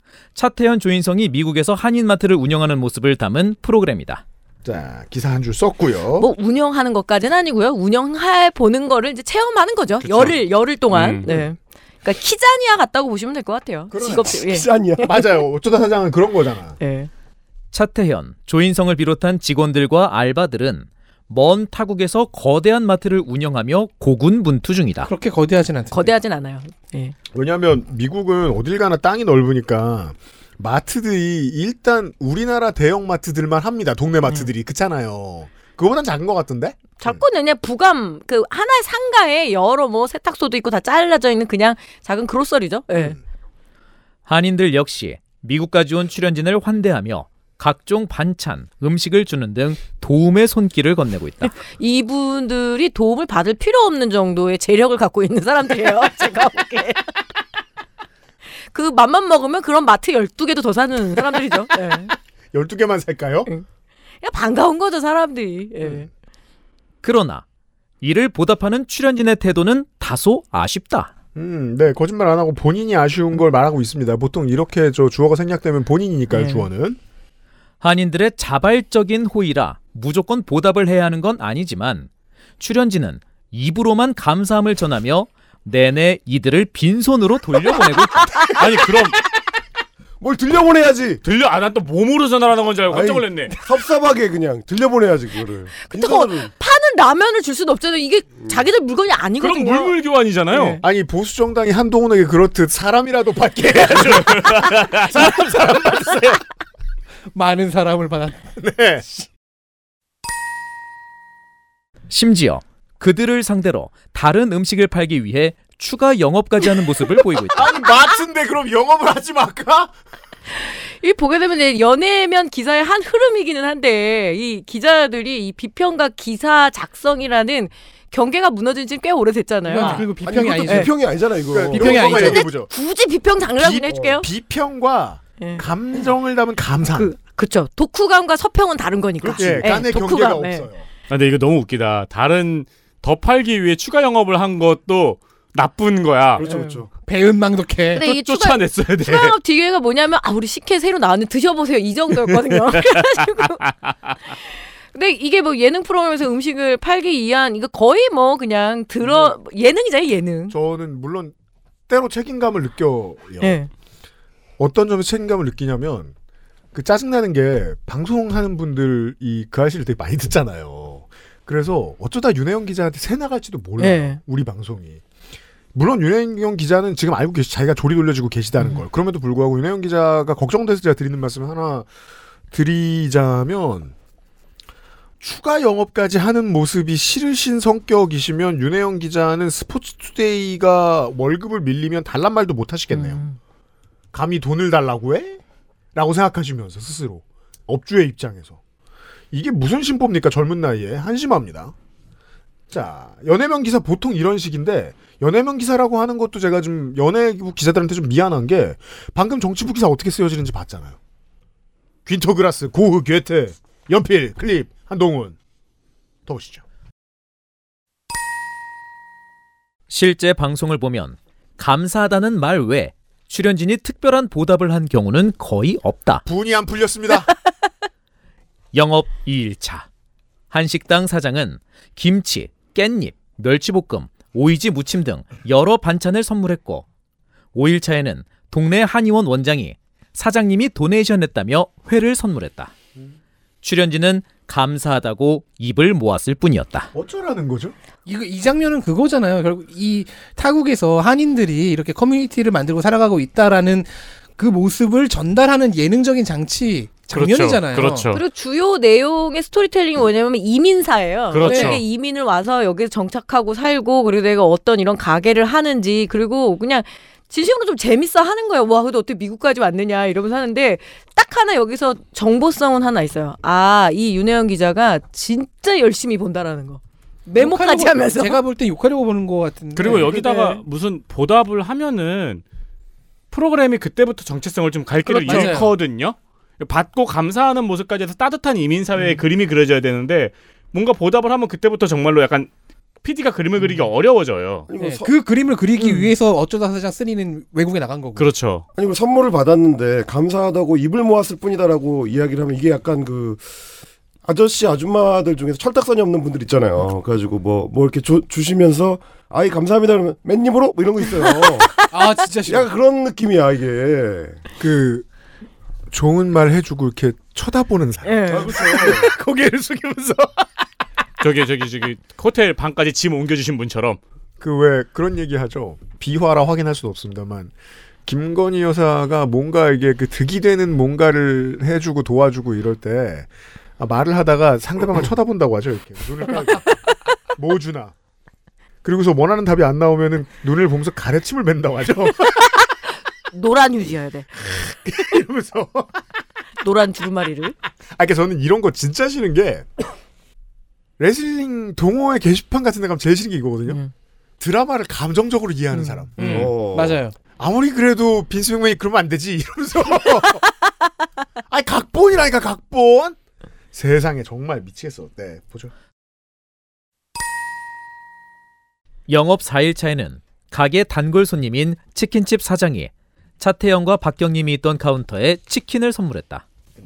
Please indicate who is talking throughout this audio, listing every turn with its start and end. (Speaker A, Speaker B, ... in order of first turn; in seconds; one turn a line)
Speaker A: 0.3-4.2
Speaker B: 4.6-6.3
Speaker C: 6.2-15.2
Speaker B: 10.0-10.3
Speaker D: 10.9-11.2
Speaker B: 13.9-14.4
Speaker E: 14.3-15.1
Speaker B: 15.0-16.8
Speaker C: 16.8-17.1
Speaker A: 17.7-25.1
Speaker F: 25.0-26.1
Speaker C: 25.9-27.1
Speaker B: 27.3-37.2
Speaker C: 37.0-43.2
Speaker A: 44.2-51.5
Speaker C: 51.6-57.1
Speaker C: 58.7-62.1
Speaker B: 62.5-63.5
Speaker C: 64.2-66.1
Speaker A: 67.0-67.4
Speaker A: 68.0-71.1
Speaker B: 71.3-77.0
Speaker C: 76.3-76.7
Speaker A: 77.8-88.5
Speaker D: 88.5-89.2
Speaker E: 90.2-91.2
Speaker D: 91.2-93.5
Speaker E: 92.9-96.5
Speaker C: 95.8-100.0
Speaker D: 99.4-100.8
Speaker C: 100.5-100.8
Speaker B: 100.8-106.4
Speaker D: 103.8-105.3
Speaker F: 107.3-108.5
Speaker B: 108.6-109.0
Speaker A: 112.1-117.7
Speaker B: 117.5-119.9
Speaker C: 120.5-130.1
Speaker F: 129.6-130.9
Speaker E: 129.8-132.3
Speaker C: 130.7-130.9
Speaker B: 131.5-132.7
Speaker F: 131.7-132.4
Speaker C: 131.8-134.3
Speaker B: 133.6-137.1
Speaker E: 133.9-134.2
Speaker C: 136.9-140.7
Speaker E: 139.2-139.8
Speaker B: 139.3-140.8
Speaker D: 141.1-146.4
Speaker E: 146.4-146.9
Speaker C: 146.4-146.8
Speaker F: 147.0-148.0
Speaker C: 147.9-153.6
Speaker D: 148.0-149.3
Speaker D: 153.9-154.1
Speaker C: 154.9-160.5
Speaker B: 159.0-159.3
Speaker B: 160.5-161.3
Speaker B: 161.9-163.6
Speaker C: 163.4-163.7
Speaker B: 164.6-166.1
Speaker B: 166.7-175.0
Speaker C: 173.8-174.2
Speaker B: 175.7-181.9
Speaker B: 182.5-183.9
Speaker B: 185.2-193.2
Speaker C: 192.9-193.3
Speaker B: 194.1-195.4
Speaker B: 195.9-198.6
Speaker B: 199.3-201.7
Speaker B: 202.7-211.0
Speaker B: 212.1-215.3
Speaker B: 216.2-216.6
Speaker A: 219.9-226.2
Speaker B: 226.2-227.3
Speaker A: 228.7-229.8
Speaker A: 230.5-236.8
Speaker A: 237.5-242.7
Speaker A: 243.6-246.9
Speaker B: 246.9-247.7
Speaker F: 248.1-258.1
Speaker D: 257.1-258.2
Speaker C: 258.1-278.4
Speaker D: 261.3-261.8
Speaker F: 261.4-261.8
Speaker F: 277.3-280.5
Speaker D: 279.8-282.4
Speaker C: 280.1-280.4
Speaker D: 283.3-292.5
Speaker F: 285.1-285.7
Speaker C: 285.2-285.6
Speaker D: 293.0-294.7
Speaker E: 294.7-295.1
Speaker F: 294.8-298.3
Speaker D: 298.1-298.6
Speaker E: 298.7-303.4
Speaker E: 304.2-311.8
Speaker F: 311.9-312.7
Speaker E: 312.4-314.4
Speaker B: 314.6-315.1
Speaker B: 315.9-320.4
Speaker C: 318.0-319.0
Speaker E: 318.3-319.1
Speaker D: 321.2-324.0
Speaker B: 324.4-327.5
Speaker B: 328.1-333.3
Speaker B: 333.8-336.8
Speaker B: 337.4-337.9
Speaker B: 338.8-342.4
Speaker C: 343.3-344.6
Speaker B: 344.4-346.0
Speaker C: 346.6-347.5
Speaker B: 347.9-349.9
Speaker B: 351.0-353.8
Speaker C: 353.7-353.9
Speaker B: 354.4-356.1
Speaker C: 355.7-356.0
Speaker E: 356.2-357.0
Speaker F: 356.2-357.1
Speaker B: 357.4-360.4
Speaker B: 361.5-363.2
Speaker B: 363.7-365.7
Speaker A: 369.1-376.4